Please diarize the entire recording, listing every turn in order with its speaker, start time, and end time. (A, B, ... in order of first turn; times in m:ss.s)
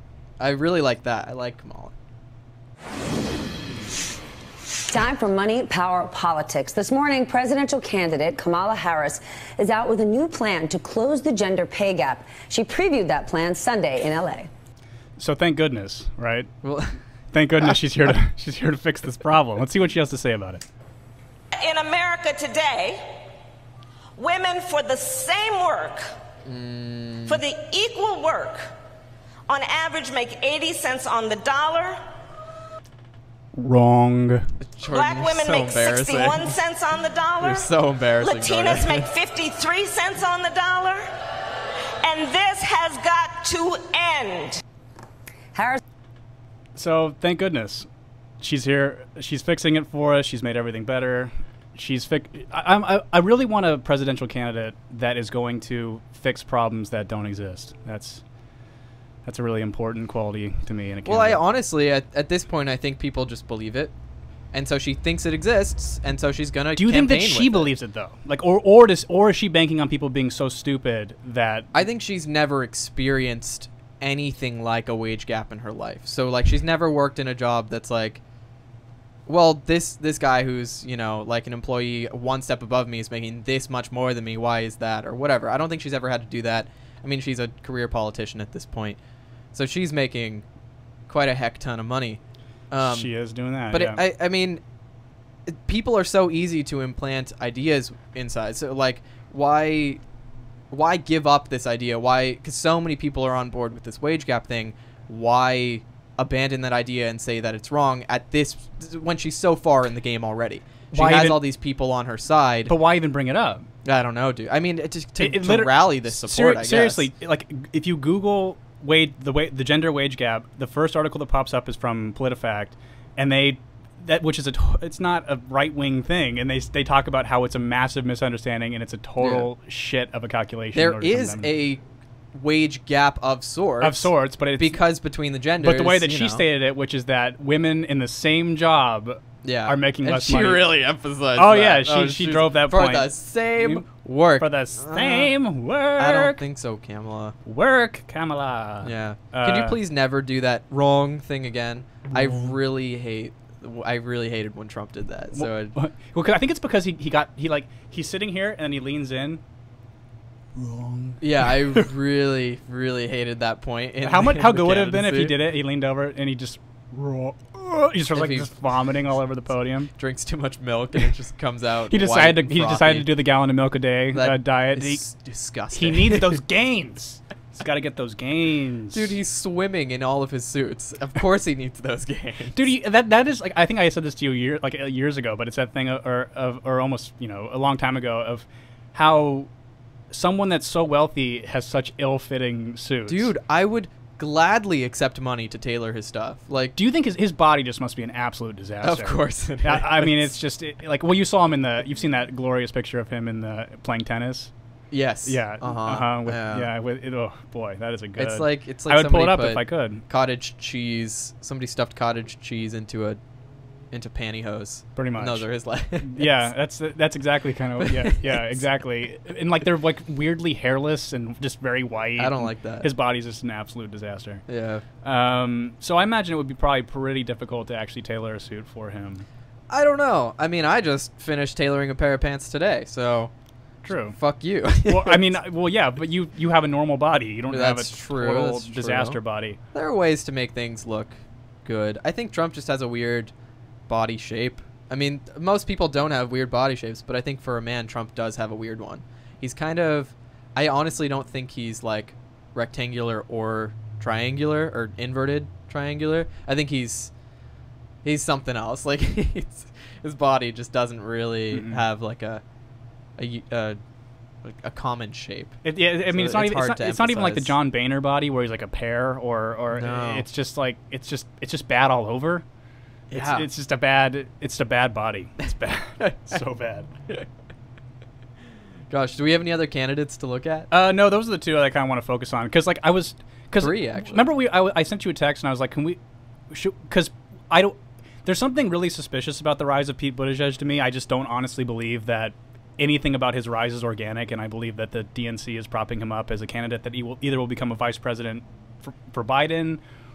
0:00.4-0:01.9 A
0:04.9-0:14.5 B
0:15.2-0:16.5 C
0:16.6-0:17.0 A
0:17.3-0:20.6 C
0:21.5-0:23.2 D
0:24.2-0:26.1 D
0:26.4-0:27.4 A
0:27.3-0:28.7 D
0:29.5-0:32.0 D
0:33.5-0:34.5 C
0:34.6-0:36.6 A
0:34.9-0:37.7 D
0:37.4-0:39.1 A
0:38.2-0:41.0 D
0:42.0-0:44.6 D
0:46.8-0:47.9 C
0:48.4-0:58.2 C
0:59.2-1:01.4 C
1:01.0-1:03.9 A
1:04.5-1:07.7 A
1:06.8-1:11.8 C
1:11.7-1:18.2 A
1:19.2-1:29.0 A
1:29.5-1:30.4 A
1:31.1-1:32.2 A
1:32.7-1:33.1 A
1:32.8-1:34.0 C
1:33.7-1:34.6 A
1:35.5-1:40.0 A
1:40.7-1:52.7 A
1:50.9-1:51.4 C
1:52.7-1:53.6 C
1:53.8-1:57.1 A
1:55.2-2:11.5 C
2:09.2-2:09.5 A
2:10.7-2:11.8 A
2:12.3-2:16.4 A
2:13.8-2:14.8 C
2:15.6-2:20.7 C
2:19.4-2:25.3 A
2:21.4-2:23.8 C
2:24.4-2:26.4 C
2:26.0-2:27.3 A
2:27.4-2:29.8 C
2:28.8-2:35.7 A
2:32.1-2:32.5 C
2:35.3-2:39.4 C
2:40.6-2:41.9 C
2:41.2-2:45.4 A
2:44.0-2:49.9 C
2:48.1-2:48.5 A
2:50.0-2:53.1 A
2:51.9-2:55.0 C
2:54.1-2:56.4 A
2:55.7-2:59.1 C
2:58.9-3:02.6 A
3:02.5-3:09.5 C
3:10.1-3:13.3 C
3:13.1-3:16.8 A
3:16.8-3:24.5 C
3:18.8-3:20.3 A
3:24.9-3:26.7 A
3:25.2-3:30.0 C
3:28.2-3:33.2 A
3:33.9-3:36.5 A
3:35.0-3:35.5 C
3:36.0-3:44.4 C
3:37.8-3:38.4 A
3:42.2-3:42.9 A
3:44.5-3:44.8 A
3:45.0-3:49.2 C
3:49.7-3:53.3 A
3:53.8-3:54.2 C
3:54.1-3:55.3 A
3:54.8-3:59.6 C
3:57.5-3:59.2 A
3:59.7-4:01.1 A
4:01.6-4:03.3 A
4:03.9-4:17.1 A
4:18.0-4:22.4 A
4:21.5-4:21.8 C
4:23.2-4:23.8 A
4:24.4-4:27.6 A
4:25.6-4:32.4 C
4:29.7-4:30.2 A
4:33.1-4:33.5 A
4:33.1-4:36.9 C
4:38.9-4:40.7 A
4:40.7-4:46.0 C
4:43.6-4:44.2 A
4:46.5-4:59.8 C